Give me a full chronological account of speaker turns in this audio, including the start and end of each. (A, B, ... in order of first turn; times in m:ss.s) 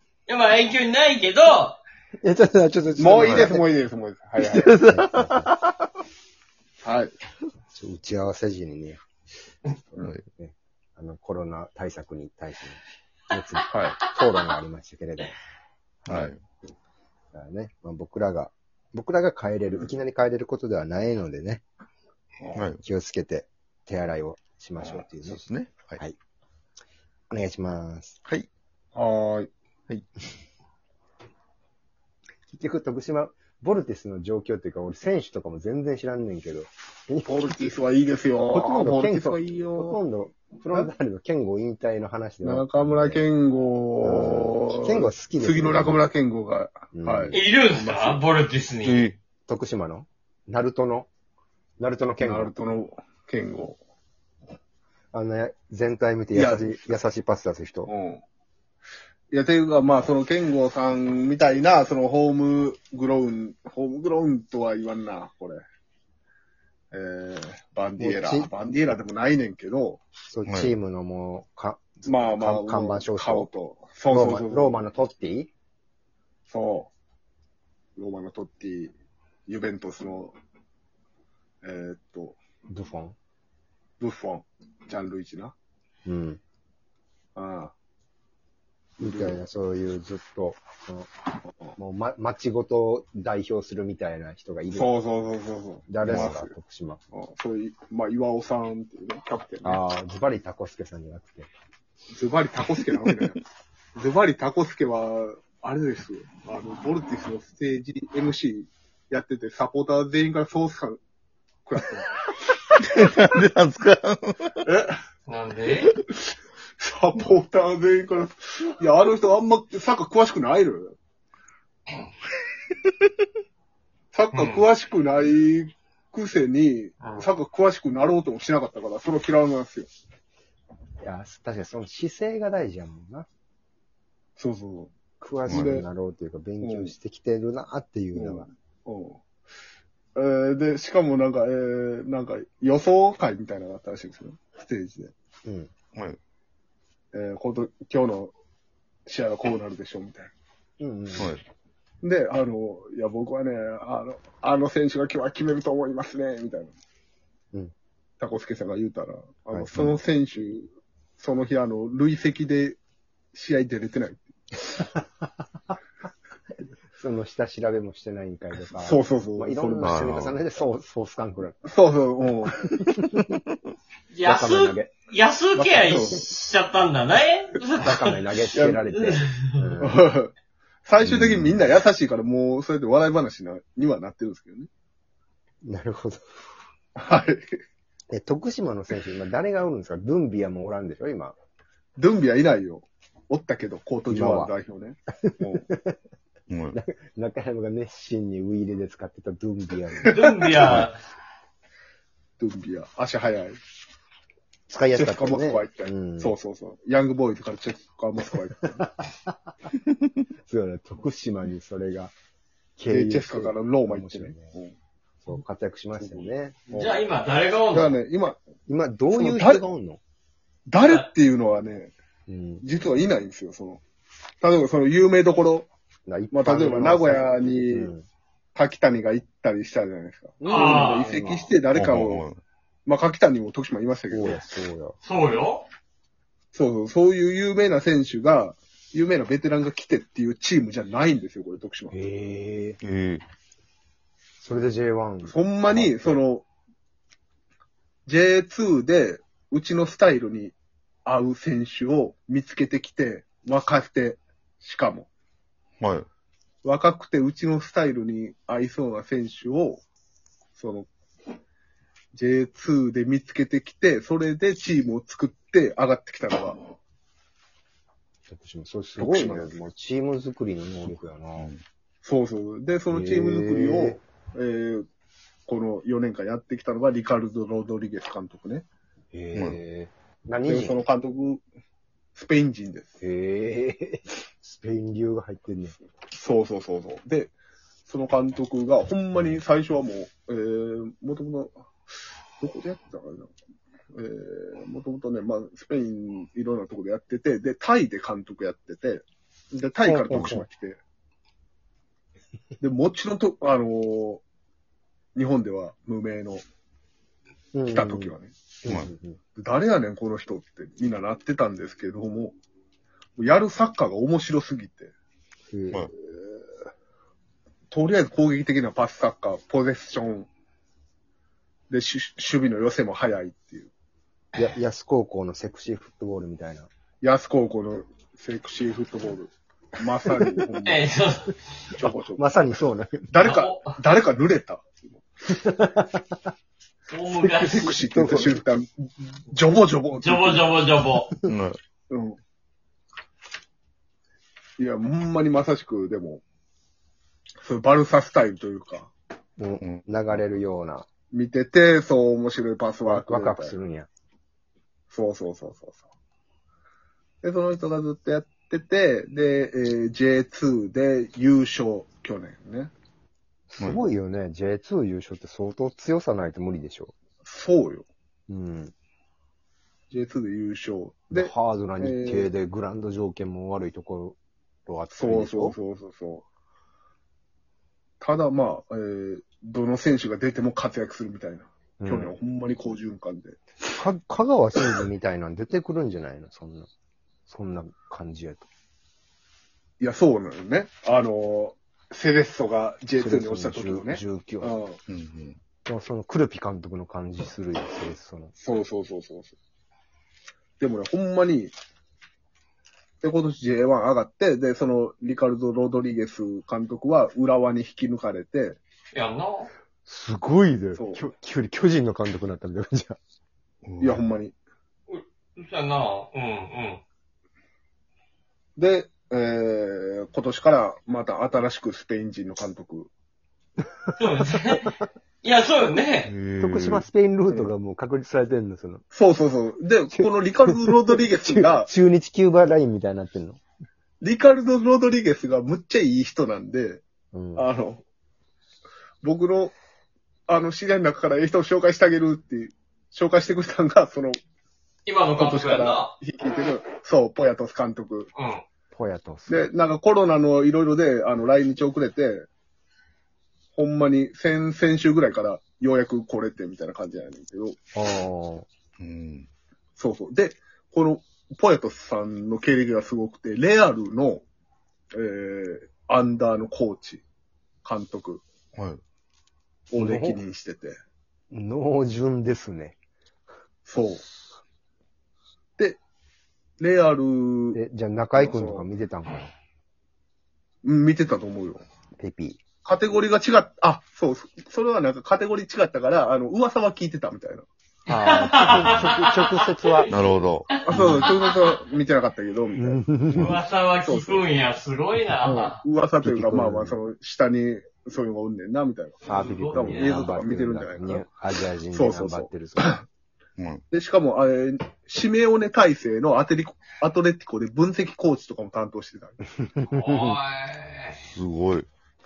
0:00.3-0:01.8 A
0:02.2-0:03.7 B
0:03.0-0:04.8 C
0:03.2-0:03.5 D
0:04.4-0:05.5 B
0:04.4-0:05.7 D
0:06.8-0:07.1 C
0:07.7-0:09.0 B
0:10.0-0:10.2 D
0:10.4-0:15.3 B
0:13.7-0:14.0 C
0:16.1-0:16.4 D
0:17.3-0:21.6 B
0:22.5-0:22.8 D
0:22.8-0:25.4 B
0:24.9-0:26.0 D
0:27.3-0:28.2 B
0:29.0-0:29.5 C
0:32.5-0:37.8 B
0:37.3-0:40.0 C
0:38.5-0:43.2 B
0:42.4-0:48.2 C
0:44.0-0:46.1 B
0:46.9-0:47.4 B
0:47.3-0:49.1 A
0:48.8-0:49.2 D
0:49.5-0:51.1 B
0:51.8-0:52.6 B
0:52.2-0:53.8 C
0:55.1-0:57.9 B
0:56.3-0:56.9 C
0:57.9-0:58.2 C
0:59.3-1:05.6 C
1:06.9-1:10.1 C
1:08.0-1:08.5 B
1:10.3-1:13.5 B
1:10.5-1:10.8 D
1:12.1-1:14.8 C
1:14.1-1:15.5 B
1:16.5-1:16.9 C
1:18.0-1:18.9 C
1:19.5-1:20.3 C
1:21.6-1:22.4 C
1:22.7-1:23.2 B
1:24.0-1:25.5 C
1:26.1-1:26.4 B
1:27.4-1:27.7 C
1:29.0-1:29.4 C
1:29.0-1:31.1 B
1:31.7-1:35.0 B
1:34.7-1:36.5 C
1:35.9-1:37.0 B
1:37.1-1:39.8 C
1:39.6-1:41.5 B
1:42.2-1:43.4 C
1:44.0-1:51.0 C
1:51.7-1:52.1 C
1:52.7-1:54.7 D
1:54.7-1:55.0 C
1:55.3-1:55.9 A
1:56.8-2:01.0 C
2:04.1-2:09.9 C
2:04.3-2:04.7 A
2:07.0-2:07.3 A
2:11.0-2:13.3 B
2:14.4-2:15.0 C
2:15.2-2:18.5 B
2:15.5-2:15.9 C
2:16.6-2:16.9 C
2:18.2-2:19.2 C
2:20.2-2:25.1 C
2:27.1-2:28.3 C
2:29.1-2:30.3 C
2:30.8-2:31.4 B
2:31.2-2:31.4 D
2:32.0-2:36.7 C
2:38.2-2:42.8 C
2:43.3-2:44.3 C
2:47.0-2:51.6 B
2:48.8-2:50.0 C
2:49.8-2:50.4 D
2:51.6-2:52.7 C
2:54.1-2:58.2 A
2:54.2-2:54.9 B
2:55.5-2:56.2 C
2:57.8-3:00.1 B
2:58.5-2:58.8 C
2:58.9-2:59.7 A
2:59.8-3:00.3 C
3:00.9-3:04.7 C
3:01.0-3:01.5 D
3:05.6-3:06.2 B
3:07.0-3:07.6 C
3:08.1-3:11.4 B
3:12.0-3:15.7 C
3:14.1-3:14.6 B
3:15.2-3:16.0 B
3:16.5-3:16.8 D
3:16.7-3:20.8 B
3:20.1-3:21.0 A
3:22.4-3:23.6 C
3:24.7-3:26.4 B
3:24.9-3:28.9 C
3:30.5-3:32.1 B
3:32.8-3:34.5 B
3:32.9-3:34.8 C
3:35.2-3:36.6 B
3:36.0-3:37.0 C
3:36.7-3:38.0 A
3:37.7-3:38.4 C
3:38.7-3:40.0 B
3:39.1-3:39.7 C
3:40.7-3:41.9 C
3:40.8-3:41.1 A
3:42.3-3:42.6 B
3:42.6-3:43.8 C
3:44.4-3:45.7 C
3:46.1-3:48.0 B
3:46.3-3:47.9 C
3:48.6-3:52.3 C
3:50.4-3:51.5 B
3:50.5-3:51.3 A
3:51.7-3:52.4 D
3:52.9-3:54.6 C
3:54.1-3:55.0 B
3:55.0-3:55.7 A
3:56.5-4:02.0 C
4:01.9-4:02.8 B
4:02.8-4:03.2 D
4:04.4-4:06.2 B
4:05.2-4:06.5 C
4:08.1-4:10.6 C
4:11.1-4:15.1 C
4:15.8-4:16.1 D
4:16.6-4:19.8 C
4:20.6-4:20.9 C
4:22.1-4:26.6 C
4:28.3-4:31.5 B
4:29.0-4:29.6 C
4:31.4-4:31.6 D
4:32.0-4:34.9 C
4:32.9-4:34.0 B
4:35.5-4:38.6 C
4:39.1-4:40.8 B
4:39.3-4:39.6 D
4:40.4-4:41.4 C
4:42.2-4:43.0 C
4:43.0-4:45.8 B
4:46.1-4:47.3 C
4:47.9-4:51.5 C
4:52.4-4:53.3 C
4:53.9-5:00.8 C
4:59.8-5:00.5 B
5:02.6-5:04.2 C
5:05.2-5:06.4 C
5:07.5-5:09.2 B
5:07.7-5:08.4 C
5:09.4-5:12.4 C
5:13.2-5:14.9 C
5:15.5-5:15.9 B
5:16.1-5:16.4 C
5:17.7-5:20.3 C
5:21.7-5:23.7 C
5:24.4-5:26.7 B
5:27.0-5:30.9 C
5:30.0-5:30.4 B
5:30.6-5:31.4 A
5:31.8-5:32.3 C
5:31.8-5:33.1 B
5:33.1-5:35.0 C
5:33.2-5:33.8 A
5:35.3-5:36.3 B
5:36.9-5:37.7 A
5:37.4-5:40.6 C
5:37.5-5:38.4 B
5:40.0-5:41.1 A
5:40.9-5:41.3 B
5:41.3-5:41.6 D
5:41.9-5:42.2 C
5:44.6-5:46.2 C
5:47.4-5:48.9 C
5:49.4-5:50.9 B
5:49.6-5:50.3 D
5:51.1-5:53.6 C
5:52.8-5:53.9 B
5:54.9-5:55.8 C
5:57.2-6:02.7 C
6:03.5-6:06.9 B
6:07.2-6:07.9 C
6:08.3-6:08.7 B
6:09.9-6:12.3 C
6:11.1-6:15.6 B
6:15.0-6:16.2 C
6:18.0-6:23.4 C
6:21.8-6:22.2 B
6:23.8-6:26.7 B
6:27.3-6:28.5 B
6:29.8-6:34.8 C
6:33.0-6:34.6 B
6:34.9-6:35.4 D
6:35.7-6:38.3 B
6:38.4-6:39.4 C
6:40.6-6:41.5 C
6:43.0-6:48.6 C
6:48.9-6:49.5 A
6:49.9-6:53.0 B
6:50.8-6:51.0 C
6:53.6-6:54.0 D
6:53.8-6:54.4 C
6:54.9-6:56.8 A
6:58.6-7:02.9 C
7:04.0-7:04.7 A
7:05.2-7:06.1 A
7:06.1-7:06.8 D
7:06.4-7:08.8 B
7:08.9-7:11.7 C
7:09.9-7:13.4 B
7:14.0-7:16.8 C
7:17.1-7:17.5 B
7:17.4-7:17.8 C
7:19.0-7:19.5 C
7:20.3-7:24.2 C
7:24.9-7:25.9 A
7:25.2-7:28.1 C
7:28.2-7:28.4 A
7:28.7-7:29.5 B
7:29.3-7:32.3 C
7:33.6-7:37.6 C
7:37.8-7:38.5 B
7:38.8-7:39.3 D
7:39.8-7:44.2 C
7:44.9-7:47.0 C
7:47.6-7:48.2 C
7:48.5-7:48.8 D
7:49.7-7:50.8 C
7:49.8-7:50.2 B
7:51.3-7:52.8 B
7:53.7-7:54.0 C
7:56.6-7:57.6 C
7:57.5-7:59.3 B
7:58.2-7:58.7 C
8:00.6-8:01.6 C
8:02.0-8:02.4 B
8:02.6-8:07.5 C
8:07.9-8:09.9 B
8:07.9-8:11.6 A
8:09.9-8:10.6 D
8:10.6-8:12.8 C
8:10.7-8:11.1 B
8:12.6-8:13.4 B
8:13.1-8:15.6 A
8:13.8-8:14.3 C
8:15.2-8:21.1 C
8:16.0-8:16.8 B
8:19.1-8:22.8 B
8:19.1-8:20.1 A
8:21.7-8:22.8 C
8:23.4-8:23.6 D
8:23.7-8:29.2 C
8:29.4-8:30.2 B
8:29.7-8:31.0 A
8:31.2-8:31.7 D